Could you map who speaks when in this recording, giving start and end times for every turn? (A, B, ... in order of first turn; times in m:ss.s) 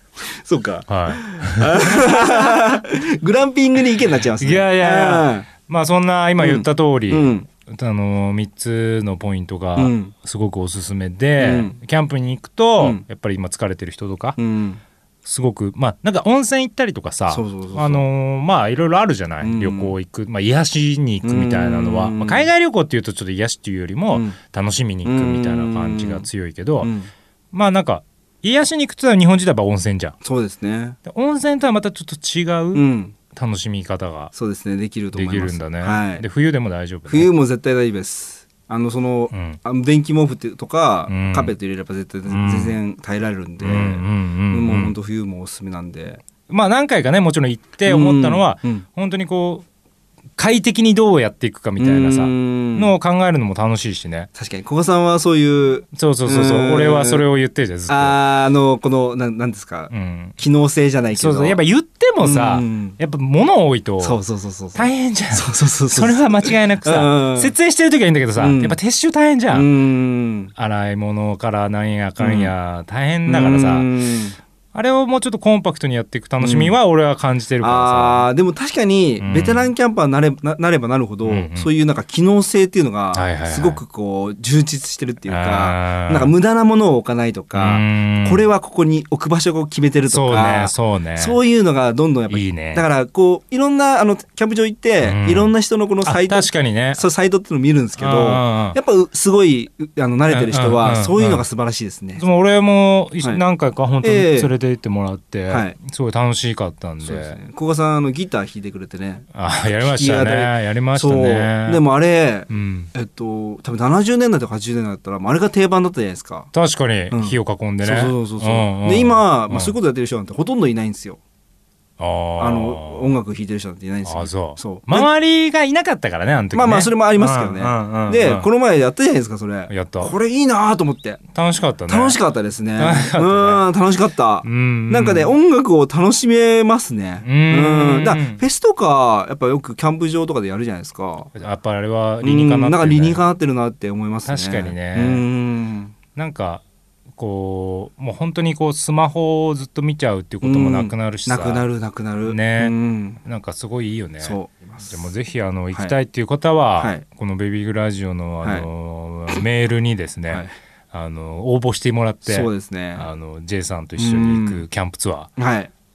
0:00.4-0:05.5 A
0:00.9-0:02.6 B
0:04.4-0:14.4 B
0:06.4-0:07.5 A
0:09.8-0:10.1 A
0:11.4-0:11.8 A
0:12.8-0:13.0 A
0:14.4-0:14.8 A
0:15.2-0:26.9 B
0:17.3-0:18.0 A
0:19.4-0:19.9 A
0:21.2-0:22.5 A
0:24.1-0:24.4 A
0:25.0-0:26.2 A
0:26.8-0:27.1 A
0:27.5-0:30.2 B
0:30.2-0:31.0 A
0:31.0-0:34.3 B
0:32.7-0:33.1 A
0:34.3-0:36.2 A
0:35.1-0:37.3 B
0:37.1-0:46.2 A
0:39.3-0:39.6 B
0:41.1-0:41.6 B
0:42.3-0:42.7 B
0:43.6-0:44.9 B
0:46.5-0:49.6 B
0:47.9-0:48.8 A
0:50.4-0:54.3 B
0:51.8-0:52.9 A
0:54.4-0:57.2 A
0:55.9-0:58.2 B
0:57.9-1:01.6 A
0:59.9-1:00.4 B
1:01.1-1:04.2 B
1:02.2-1:03.0 A
1:04.0-1:07.5 A
1:04.7-1:09.7 B
1:08.4-1:08.8 A
1:09.5-1:10.5 A
1:10.6-1:13.9 B
1:12.2-1:12.5 A
1:13.2-1:14.4 A
1:14.7-1:18.3 B
1:16.4-1:16.7 A
1:17.6-1:42.2 A
1:19.2-1:19.7 B
1:21.2-1:21.7 B
1:23.1-1:23.8 B
1:25.3-1:26.3 B
1:27.5-1:28.4 B
1:30.1-1:31.4 B
1:32.3-1:32.8 B
1:35.0-1:35.5 B
1:36.0-1:37.0 B
1:38.0-1:38.8 B
1:40.3-1:41.4 B
1:42.2-1:47.4 B
1:44.0-1:44.5 A
1:45.5-1:45.8 A
1:47.0-1:56.5 A
1:49.3-1:51.8 B
1:52.5-1:52.9 B
1:56.5-1:59.7 B
1:57.1-2:01.2 A
2:02.0-2:03.1 B
2:02.4-2:05.1 A
2:04.0-2:08.5 B
2:06.5-2:11.2 A
2:09.7-2:10.1 B
2:11.3-2:12.2 B
2:11.9-2:21.3 A
2:12.8-2:13.6 B
2:14.4-2:15.3 B
2:17.2-2:18.4 B
2:21.3-2:23.2 B
2:22.2-2:25.9 A
2:24.3-2:25.2 B
2:26.1-2:26.6 B
2:27.1-2:31.6 B
2:30.4-2:33.2 A
2:32.2-2:45.3 B
2:34.2-2:34.9 A
2:36.8-2:37.0 A
2:42.3-2:43.1 A
2:44.0-2:44.6 A
2:45.4-2:45.7 A